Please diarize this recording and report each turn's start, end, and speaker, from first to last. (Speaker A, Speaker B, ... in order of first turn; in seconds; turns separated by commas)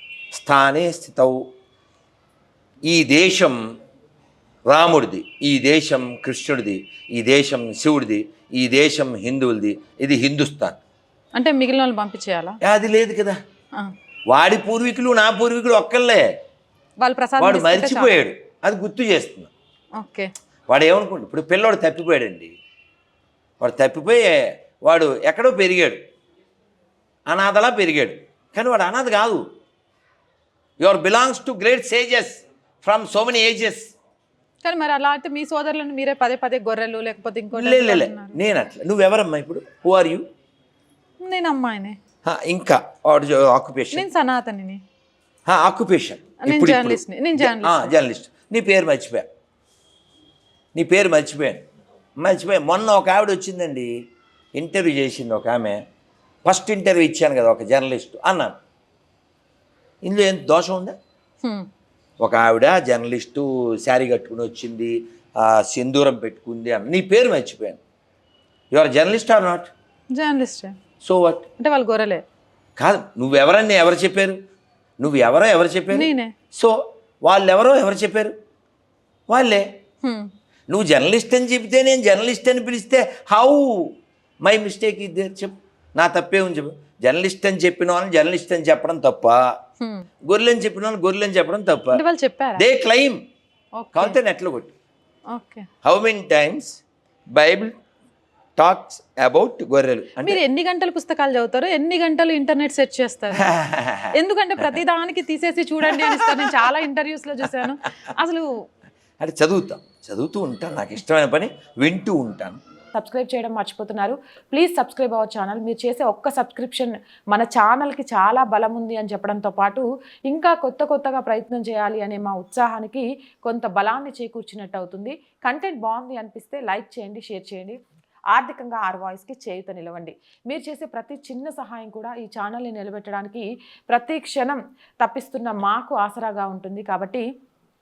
Speaker A: 0.3-1.4, Speaker A: 2.9-3.6, Speaker A: 4.7-10.8, Speaker B: 11.3-12.6, Speaker A: 12.6-13.4, Speaker A: 14.3-16.3, Speaker B: 17.0-18.2, Speaker A: 17.4-19.5, Speaker B: 20.0-20.3, Speaker A: 20.7-22.5, Speaker A: 23.6-26.0, Speaker A: 27.3-29.4, Speaker A: 30.8-33.9, Speaker B: 34.6-38.4, Speaker A: 37.5-40.2, Speaker B: 41.2-42.0, Speaker A: 42.2-44.1, Speaker B: 43.9-44.8, Speaker A: 45.5-49.3, Speaker B: 46.4-47.9, Speaker A: 50.7-51.6, Speaker A: 52.2-53.9, Speaker A: 54.5-55.8, Speaker A: 56.5-58.6, Speaker A: 60.0-61.0, Speaker A: 62.2-67.8, Speaker A: 68.7-69.7, Speaker B: 70.1-70.8, Speaker A: 71.0-71.5, Speaker B: 71.6-72.2, Speaker A: 72.8-74.4, Speaker A: 75.0-78.3, Speaker B: 75.9-76.3, Speaker A: 79.3-79.7, Speaker B: 80.0-80.3, Speaker A: 80.7-89.5, Speaker B: 89.8-90.1, Speaker A: 90.2-92.0, Speaker B: 91.9-92.6, Speaker A: 92.5-93.2, Speaker B: 93.8-94.2, Speaker A: 93.9-94.7, Speaker B: 95.3-95.7, Speaker A: 95.8-96.8, Speaker A: 97.3-97.8, Speaker A: 98.5-100.4, Speaker B: 100.2-103.5, Speaker A: 103.3-104.2, Speaker B: 104.1-108.5, Speaker A: 105.8-106.7, Speaker A: 109.2-112.6, Speaker C: 112.9-127.8, Speaker C: 128.3-137.2